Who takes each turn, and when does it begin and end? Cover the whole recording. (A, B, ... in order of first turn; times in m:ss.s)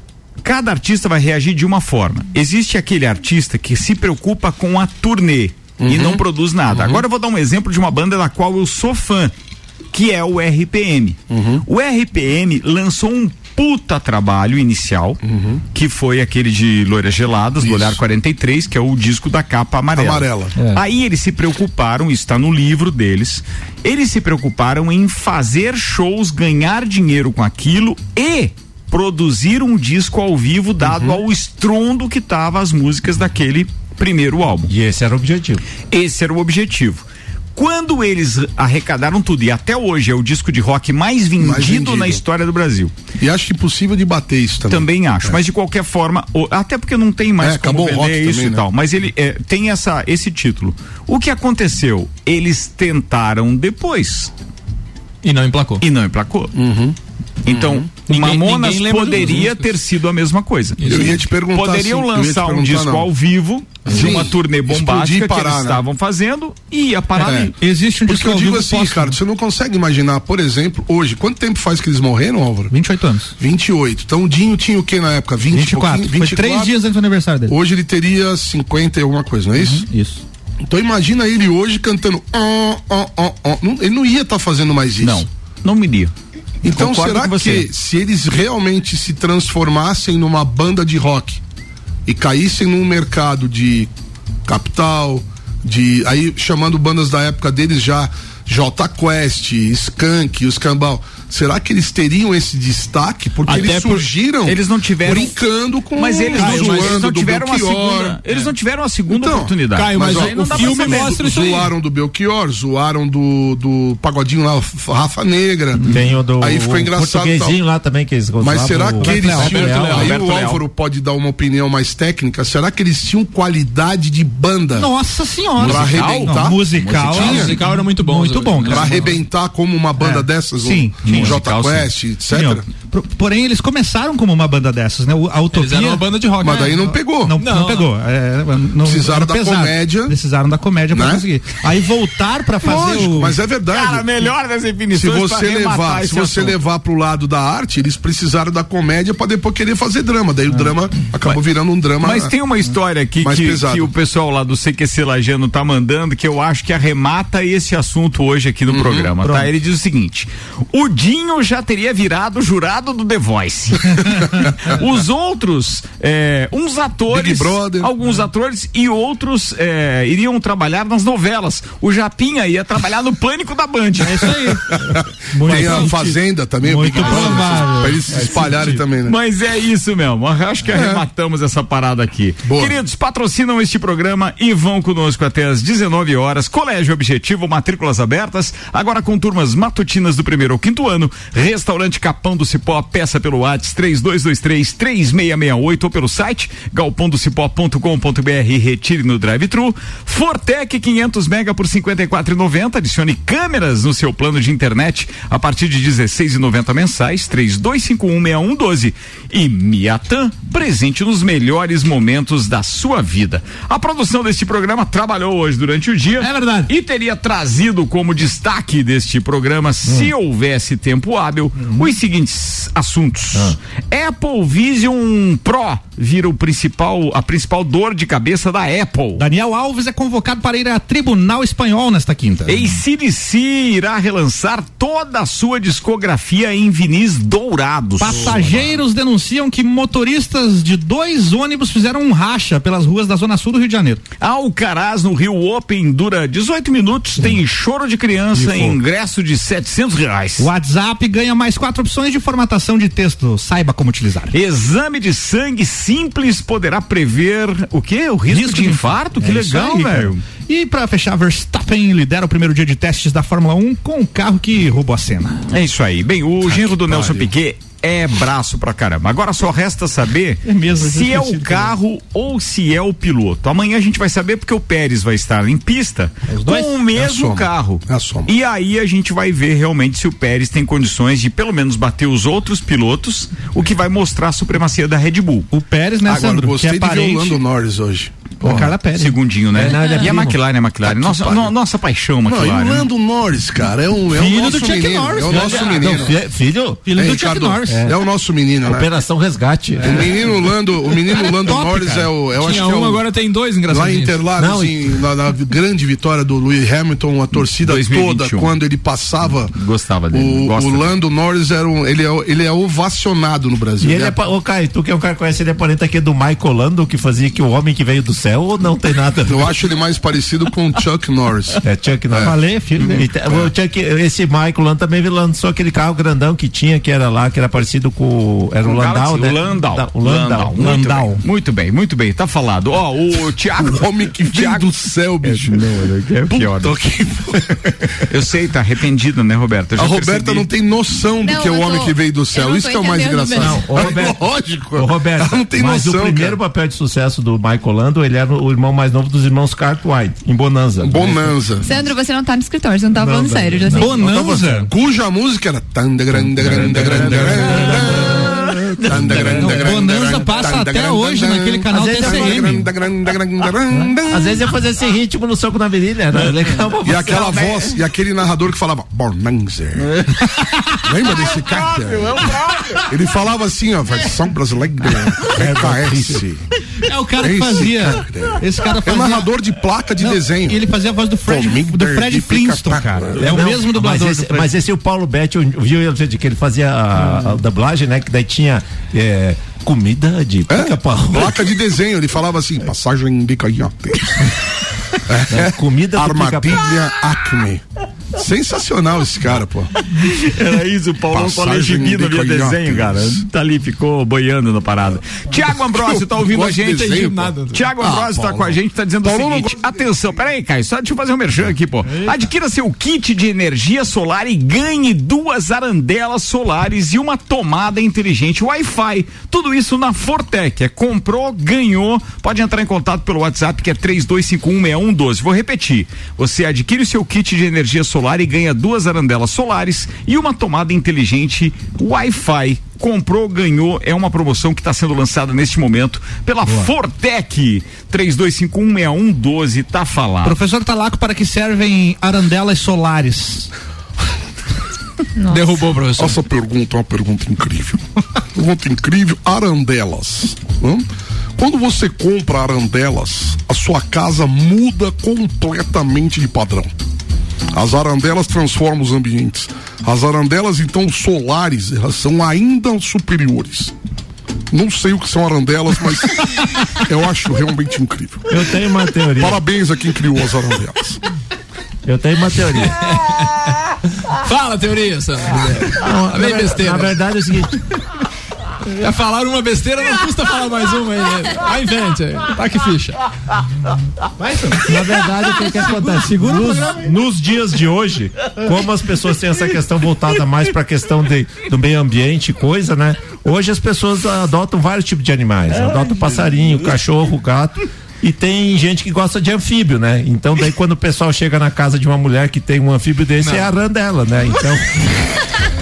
0:00.4-0:09.3 A
0:05.8-0:07.0 B
0:09.9-0:15.2 A
0:11.3-0:11.6 B
0:15.2-0:15.6 B
0:15.7-0:34.7 A
0:17.6-0:18.0 B
0:20.0-0:20.6 B
0:30.8-0:31.2 B
0:34.7-0:35.6 C
0:35.9-0:37.0 A
0:37.6-0:42.9 A
0:41.4-0:42.2 B
0:43.2-0:45.4 B
0:44.7-0:54.3 A
0:47.4-0:48.6 B
0:55.2-0:55.8 D
0:55.8-0:56.5 A
0:56.6-0:57.0 B
0:57.4-1:07.5 A
0:57.5-0:57.9 B
0:58.1-0:59.7 D
1:00.8-1:01.2 D
1:00.9-1:03.1 B
1:03.8-1:05.8 B
1:07.2-1:07.5 B
1:07.5-1:09.2 E
1:08.0-1:12.7 B
1:12.7-1:13.4 E
1:13.4-1:16.7 B
1:15.4-1:17.5 E
1:17.5-1:19.8 B
1:19.6-1:20.2 E
1:20.7-1:25.3 B
1:25.0-1:26.1 A
1:26.6-1:31.4 B
1:26.6-1:27.7 A
1:32.1-1:33.9 B
1:34.5-1:48.2 B
1:43.5-1:44.1 D
1:44.4-1:45.4 A
1:45.9-1:51.2 A
1:46.4-1:47.0 D
1:49.1-1:57.6 B
1:49.7-1:51.7 D
1:55.8-2:00.1 C
1:58.4-2:04.9 B
1:59.0-1:59.6 E
1:59.4-2:00.1 D
1:59.9-2:00.6 A
2:04.8-2:09.2 E
2:05.6-2:07.6 B
2:05.6-2:07.6 A
2:07.1-2:09.2 D
2:08.6-2:12.6 B
2:10.0-2:11.3 E
2:11.0-2:11.9 A
2:12.3-2:16.1 E
2:15.5-2:17.9 D
2:16.4-2:17.4 B
2:17.2-2:23.4 E
2:18.8-2:20.2 B
2:20.9-2:21.2 B
2:22.6-2:24.3 B
2:23.7-2:26.6 A
2:24.9-2:32.3 B
2:32.0-2:54.4 A
2:33.2-2:33.9 B
2:38.7-2:39.1 B
2:47.1-2:47.9 B
2:54.0-2:58.8 E
2:54.7-2:59.2 B
2:57.0-2:57.4 A
2:59.0-3:49.2 A
3:00.7-3:01.0 B
3:02.5-3:02.8 B
3:36.2-3:36.7 E
3:39.8-3:40.1 C
3:41.6-3:41.9 E
3:49.2-3:52.8 E
3:52.5-3:58.7 A
3:58.0-4:04.0 E
4:04.2-4:10.5 A
4:08.4-4:08.8 E
4:10.4-4:14.3 E
4:14.3-4:20.2 A
4:18.3-4:25.4 E
4:25.5-4:45.5 A
4:30.4-4:31.7 E
4:36.3-4:36.7 E
4:37.0-4:38.3 B
4:45.5-4:47.4 E
4:46.0-4:48.7 B
4:48.4-4:49.2 E
4:49.0-4:52.9 A
4:49.5-4:50.4 C
4:50.9-4:51.5 B
4:52.3-4:56.2 B
4:54.1-4:56.1 E
4:55.2-4:56.9 C
4:56.9-4:57.9 E
4:56.9-4:58.9 B
4:57.7-4:58.0 C
4:58.6-5:00.1 C
4:59.8-5:00.3 E
4:59.8-5:03.1 B
5:01.1-5:02.1 E
5:02.4-5:04.2 D
5:03.7-5:09.5 B
5:04.4-5:05.0 C
5:07.6-5:08.6 A
5:09.5-5:10.9 A
5:10.1-5:14.2 B
5:13.8-5:19.5 C
5:19.3-5:22.4 B
5:21.6-5:30.6 C
5:22.2-5:23.1 E
5:28.6-5:34.7 A
5:30.6-5:31.2 E
5:33.6-5:35.7 B
5:35.2-5:36.8 A
5:36.3-5:37.7 B
5:38.1-5:40.5 A
5:39.8-5:46.4 B
5:41.2-5:43.8 F
5:43.3-5:51.4 C
5:50.8-5:51.7 B
5:51.6-5:54.0 F
5:53.0-5:54.7 C
5:53.8-5:54.7 E
5:54.0-6:04.4 B
5:56.1-5:59.9 C
5:56.7-5:58.1 E
5:59.3-6:02.7 E
6:01.7-6:02.7 C
6:03.7-6:07.5 C
6:06.8-6:09.9 B
6:07.0-6:07.7 A
6:09.8-6:10.1 A
6:10.4-6:10.8 E
6:10.8-6:16.5 B
6:11.0-6:12.9 A
6:15.3-6:16.2 C
6:16.8-6:19.3 E
6:17.2-6:20.6 B
6:20.0-6:24.5 E
6:21.3-6:23.4 B
6:23.2-6:31.5 C
6:30.5-6:34.3 B
6:35.1-6:37.6 B
6:35.3-6:36.7 C
6:38.1-6:39.8 B
6:40.0-7:20.4 A
6:41.1-6:43.2 B
6:45.7-6:50.2 B
6:46.7-6:47.7 D
6:51.9-6:52.2 E
7:20.2-7:23.5 E
7:25.2-7:25.6 F
7:25.3-7:26.2 D
7:26.0-7:27.8 B
7:28.4-7:30.9 B
7:31.4-7:36.7 B
7:37.5-7:43.7 B
7:44.5-7:48.5 B
7:48.3-7:49.4 C
7:49.1-7:51.0 B
7:51.8-7:52.9 C
7:52.8-7:53.4 D
7:54.1-7:57.0 D
7:55.7-7:57.6 C
7:58.7-8:03.0 D
8:04.2-8:06.8 E
8:04.6-8:25.1 C
8:23.2-8:23.5 D